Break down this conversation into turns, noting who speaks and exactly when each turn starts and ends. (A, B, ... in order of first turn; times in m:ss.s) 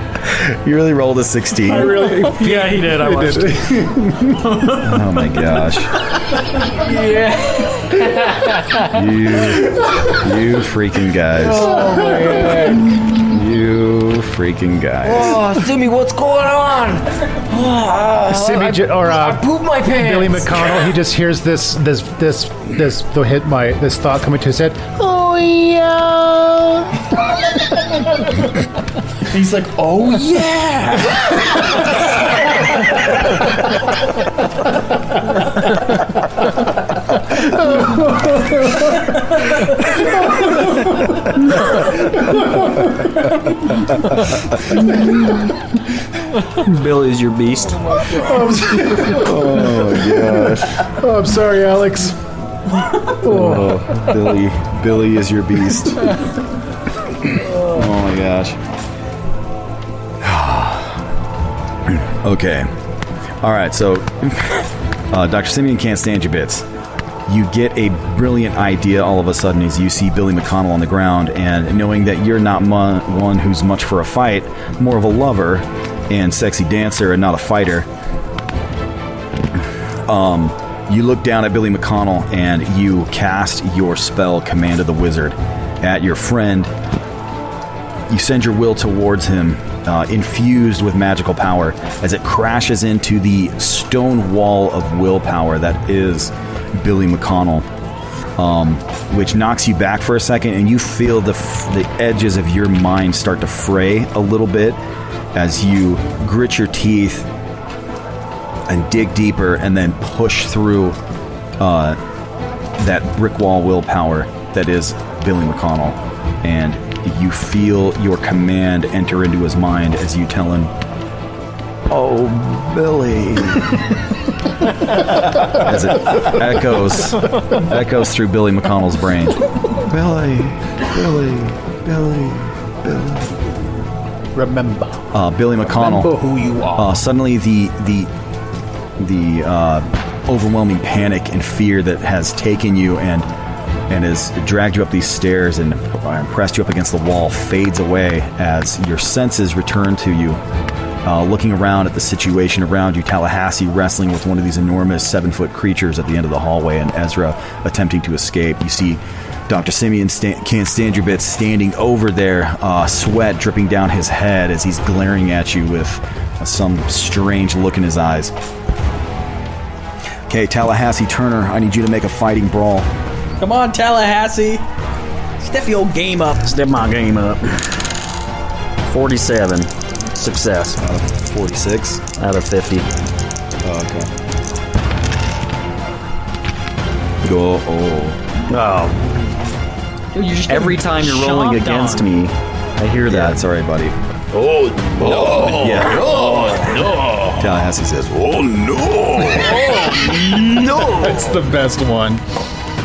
0:00.2-0:01.9 A
0:01.7-0:04.8 B
0:01.8-0:03.5 C
0:02.4-0:03.0 D
0:04.8-0:05.9 A
0:06.7-0:08.9 C
0:08.9-0:11.7 A
0:11.3-0:12.9 C
0:12.0-0:12.6 B
0:13.1-0:15.4 A
0:15.0-0:20.9 C
0:18.3-0:25.0 B
0:25.0-0:26.8 C
0:29.6-0:30.2 C
0:30.8-0:31.0 D
0:42.2-0:42.8 B
0:46.5-0:47.9 E
0:47.9-0:48.5 C
0:48.1-0:52.2 B
0:48.8-0:50.9 A
0:53.1-0:54.0 B
0:53.2-0:56.1 A
0:57.1-0:58.6 A
1:00.2-1:01.0 A
1:01.8-1:02.7 A
1:03.4-1:06.7 A
1:07.2-1:17.9 A
1:19.6-1:26.7 A
1:28.1-1:37.7 A
1:38.4-1:44.8 A
1:45.3-1:47.3 A
1:48.7-1:51.0 A
1:51.6-1:52.0 A
1:52.8-2:00.7 A
2:01.9-2:03.8 A
2:05.4-2:13.5 A
2:14.3-2:15.1 B
2:15.1-2:16.2 A
2:15.6-2:17.0 B
2:16.7-2:18.1 A
2:19.0-2:23.3 A
2:23.9-2:30.4 A
2:31.0-2:48.3 A
2:50.3-2:52.9 A
2:53.4-2:54.6 D
2:55.4-2:56.5 D
2:56.4-2:57.8 E
2:58.8-3:00.8 E
3:00.8-3:02.0 A
3:02.1-3:02.9 E
3:03.6-3:04.1 A
3:07.2-3:08.2 A
3:08.5-3:09.0 E
3:10.1-3:12.1 D
3:10.4-3:13.4 E
3:13.0-3:14.0 A
3:14.5-3:15.1 E
3:15.0-3:20.8 A
3:19.3-3:22.2 B